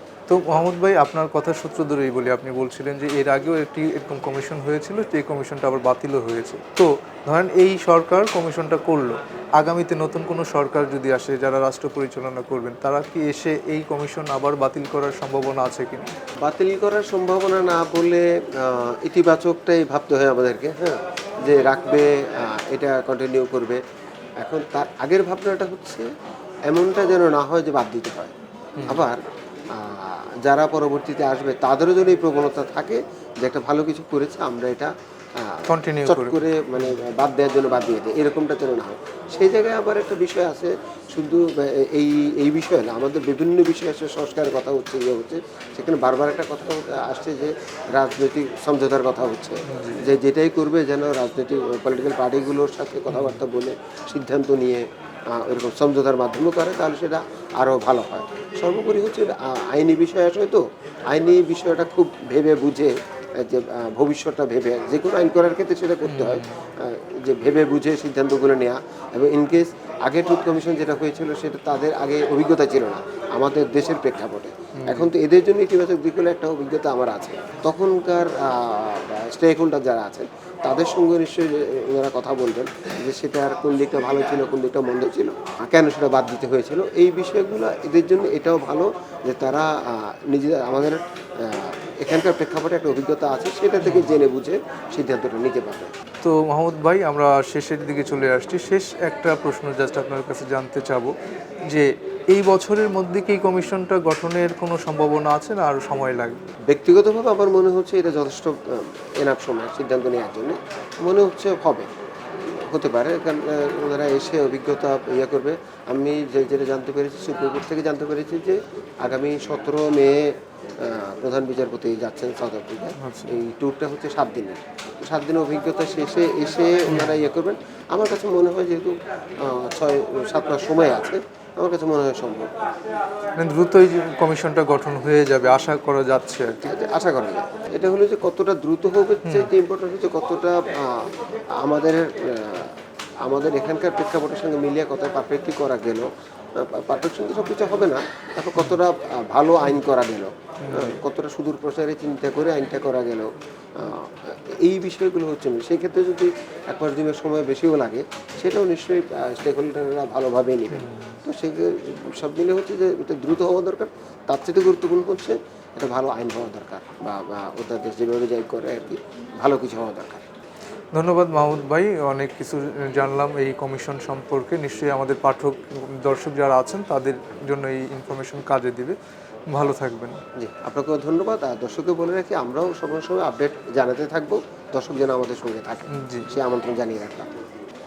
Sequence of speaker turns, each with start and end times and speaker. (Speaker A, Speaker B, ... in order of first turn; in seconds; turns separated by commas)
Speaker A: 0.3-16.1, Speaker B: 16.4-23.8, Speaker B: 24.4-26.1, Speaker B: 26.7-28.3, Speaker A: 28.8-29.1, Speaker B: 28.9-29.2, Speaker B: 29.7-95.9, Speaker A: 35.7-36.8, Speaker A: 49.7-50.0, Speaker A: 53.1-53.4, Speaker A: 66.0-66.5, Speaker A: 74.8-75.1, Speaker A: 93.8-94.2, Speaker A: 96.2-101.1, Speaker A: 101.7-106.4, Speaker B: 106.7-111.9, Speaker B: 112.5-132.5, Speaker A: 123.0-123.3, Speaker A: 126.9-127.2, Speaker A: 133.4-136.6, Speaker B: 136.6-170.2, Speaker A: 150.6-151.0, Speaker A: 160.7-161.2, Speaker A: 170.9-179.0, Speaker A: 179.5-180.2, Speaker B: 180.4-187.3, Speaker A: 185.9-186.3